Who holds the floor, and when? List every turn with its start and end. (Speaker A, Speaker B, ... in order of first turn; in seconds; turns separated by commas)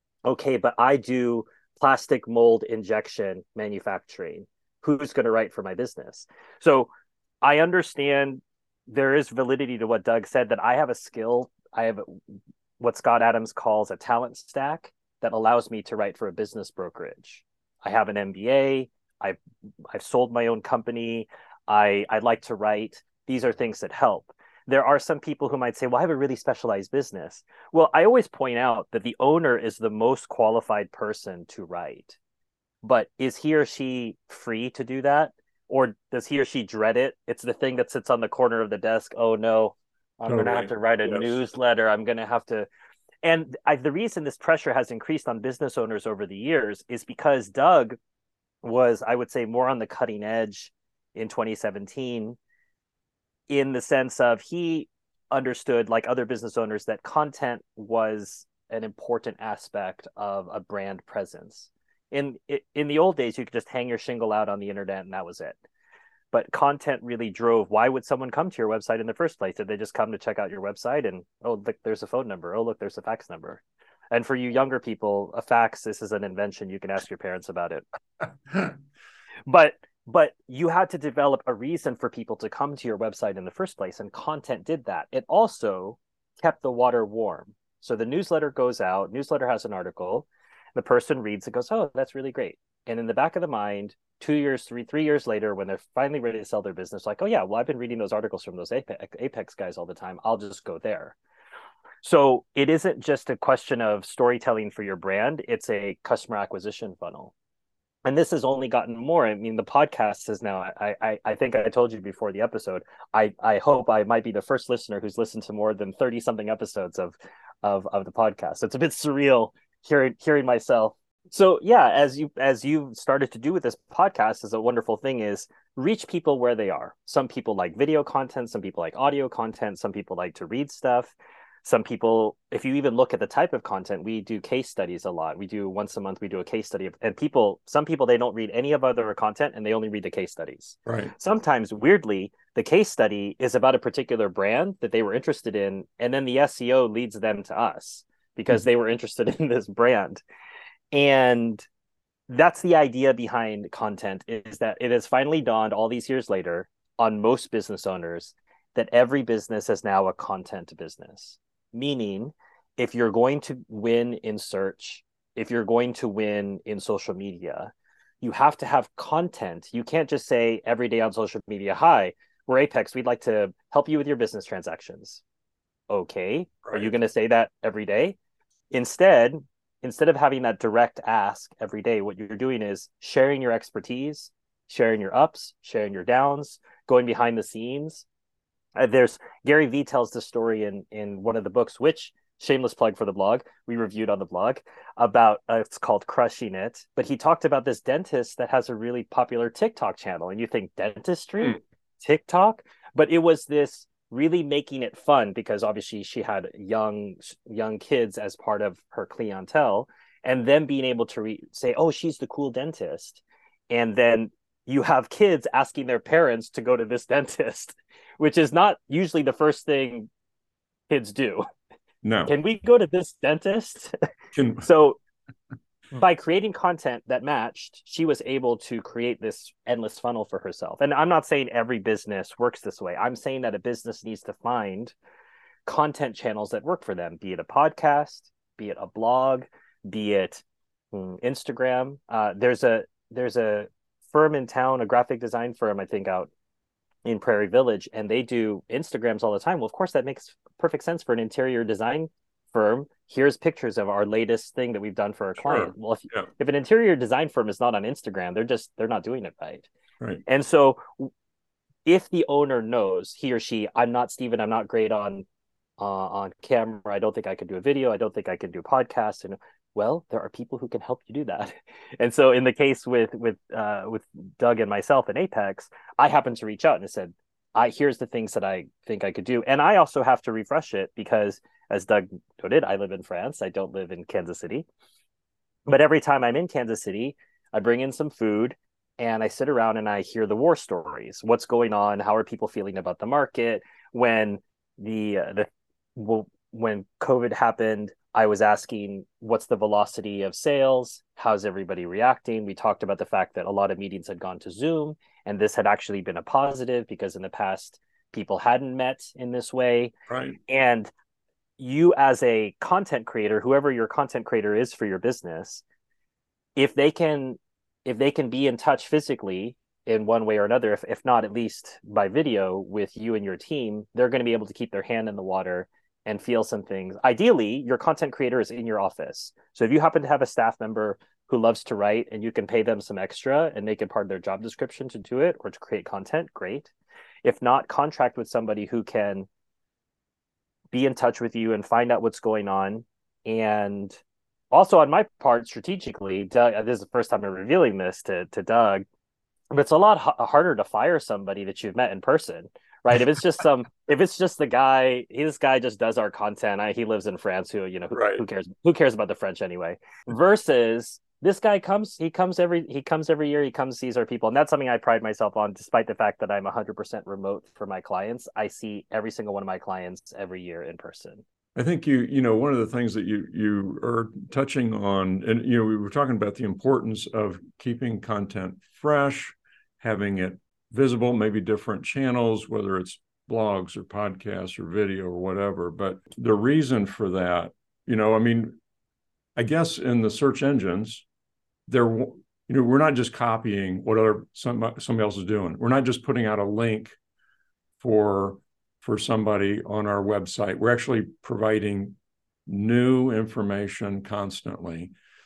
Speaker A: 0.2-6.9, Speaker A: 7.4-12.2, Speaker A: 12.8-19.4, Speaker A: 19.9-32.2, Speaker A: 32.8-42.7, Speaker B: 40.3-41.4, Speaker A: 43.2-48.0, Speaker A: 48.6-52.4, Speaker A: 53.5-65.6, Speaker A: 66.3-77.8, Speaker A: 79.5-101.2, Speaker A: 102.0-107.3, Speaker A: 108.0-150.2, Speaker B: 140.9-141.1, Speaker A: 150.9-151.7, Speaker A: 152.3-175.2, Speaker A: 175.9-178.2, Speaker B: 176.6-176.9, Speaker A: 178.7-188.1, Speaker A: 188.8-220.1, Speaker A: 220.9-221.4, Speaker B: 222.0-222.3, Speaker A: 222.3-223.9, Speaker B: 224.3-224.7, Speaker A: 224.6-225.0, Speaker A: 225.9-234.9, Speaker A: 235.7-246.3, Speaker A: 247.1-259.7, Speaker B: 255.4-256.3, Speaker A: 260.3-261.1, Speaker A: 261.9-265.3, Speaker A: 265.8-284.7, Speaker A: 285.7-309.9, Speaker B: 310.1-310.4, Speaker A: 310.5-310.9, Speaker A: 311.6-315.6, Speaker A: 316.6-336.7, Speaker A: 337.2-339.3, Speaker A: 340.7-344.0, Speaker A: 344.5-348.8, Speaker A: 349.5-371.2, Speaker B: 357.9-358.2, Speaker B: 371.6-388.6, Speaker B: 389.4-391.1, Speaker B: 391.7-397.0, Speaker B: 397.8-404.9